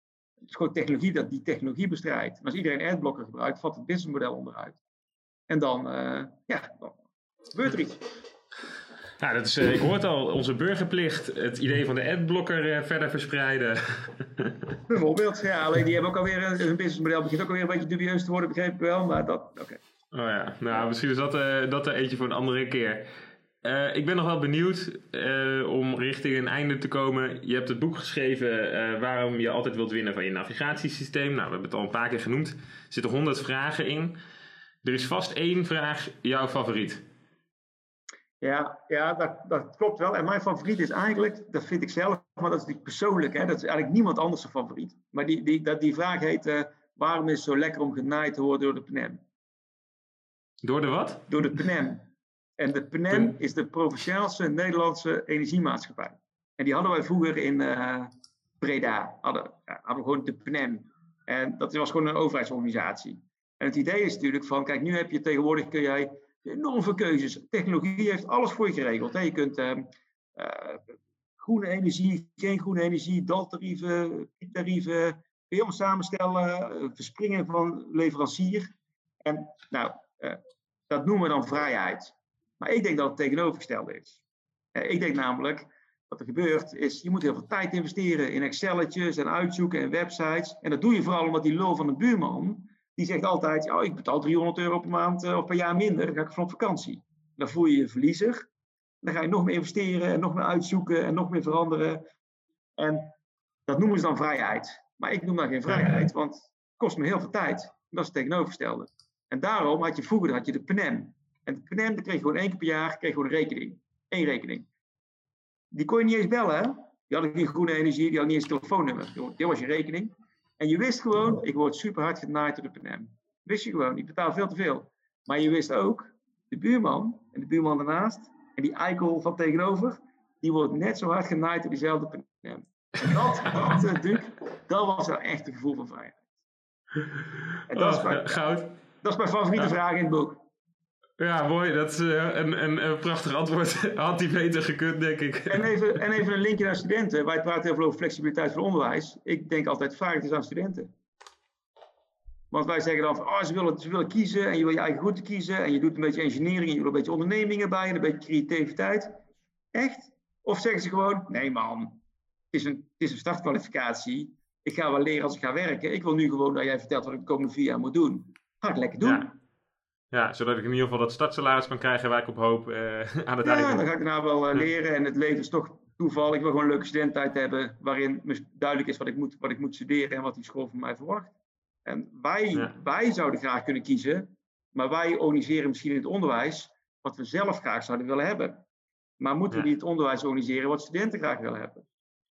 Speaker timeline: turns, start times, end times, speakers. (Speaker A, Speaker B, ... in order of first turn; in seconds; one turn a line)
Speaker A: 0.5-4.8
Speaker A: 5.5-7.0
Speaker A: 7.5-8.0
Speaker B: 9.2-14.6
Speaker A: 14.9-19.8
Speaker B: 20.1-23.1
Speaker B: 23.6-34.2
Speaker B: 34.8-37.0
Speaker A: 38.4-49.2
Speaker B: 50.6-51.3
Speaker A: 51.3-78.7
Speaker A: 79.2-84.2
Speaker A: 84.8-98.5
Speaker A: 99.0-102.0
Speaker A: 102.8-103.1
Speaker A: 103.7-114.7
Speaker A: 115.7-136.2
Speaker A: 137.7-138.4
Speaker B: 137.7-138.7
Speaker A: 139.0-140.4
Speaker B: 141.2-145.7
Speaker A: 145.5-150.9
Speaker A: 152.5-159.2
Speaker A: 159.7-162.0
Speaker A: 162.5-169.3
Speaker B: 169.0-169.3
Speaker B: 170.1-173.9
Speaker A: 173.4-181.3
Speaker A: 181.9-188.6
Speaker A: 189.2-191.9